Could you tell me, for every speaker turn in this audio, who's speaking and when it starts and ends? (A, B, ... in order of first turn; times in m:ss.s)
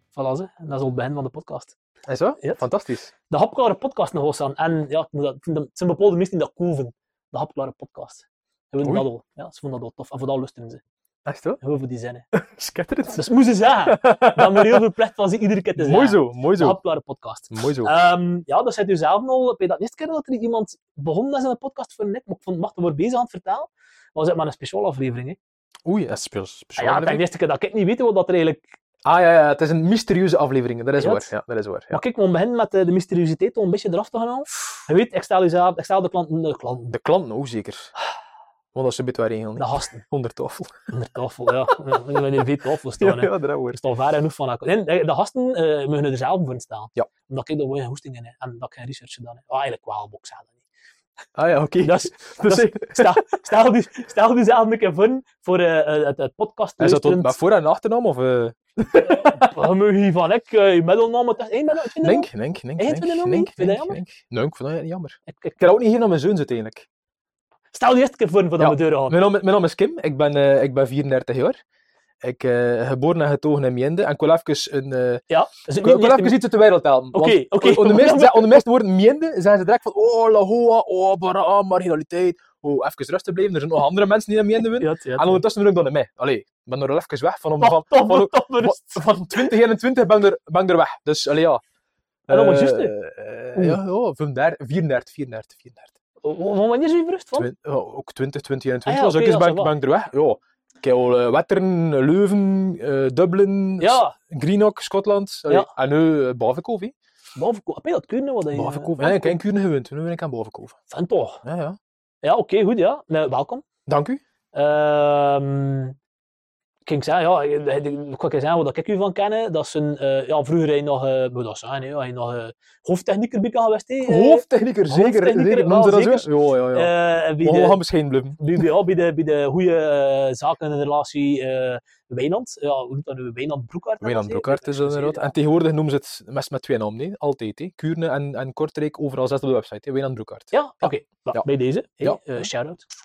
0:00.1-0:01.8 A
0:02.1-0:03.1 B
0:03.3-0:10.8 A
0:11.3-0:11.6 B
0:11.6-0:12.3 A
0:12.3-0:13.3 B
0:13.1-0:25.4 A
0:13.8-0:14.8 B
0:15.8-0:16.8 B
0:17.5-0:18.0 B
0:25.8-0:27.2 B
0:26.8-0:28.8 A
0:29.0-0:32.0 B
0:31.0-0:31.3 A
0:31.9-0:36.9 A
0:36.9-0:37.9 B
0:38.7-0:40.9 B
0:39.6-0:40.0 A
0:40.9-0:50.6 A
0:43.0-0:43.8 B
0:51.4-0:53.2 B
0:51.8-0:57.4 A
0:56.8-0:59.5 B
0:58.9-1:04.0 A
1:02.0-1:06.9 B
1:05.3-1:05.6 A
1:07.7-1:09.2 A
1:08.6-1:11.6 B
1:12.2-1:15.2 B
1:15.3-1:16.4 A
1:15.8-1:31.6 B
1:17.1-1:18.7 A
1:24.8-1:25.4 A
1:27.6-1:29.6 A
1:32.3-1:36.0 B
1:32.3-1:32.9 A
1:33.6-1:33.8 A
1:36.2-1:37.5 A
1:37.4-1:46.9 B
1:38.9-1:39.7 A
1:43.8-1:44.2 A
1:47.4-1:49.4 A
1:48.5-1:50.8 B
1:50.9-1:51.4 A
1:51.4-1:51.8 B
1:52.2-1:53.6 A
1:53.9-1:54.2 B
1:54.5-1:56.0 A
1:56.9-2:07.8 A
2:04.1-2:06.9 B
2:07.4-2:08.7 B
2:08.4-2:15.3 A
2:14.0-2:21.5 B
2:20.5-2:22.9 A
2:22.0-2:22.5 B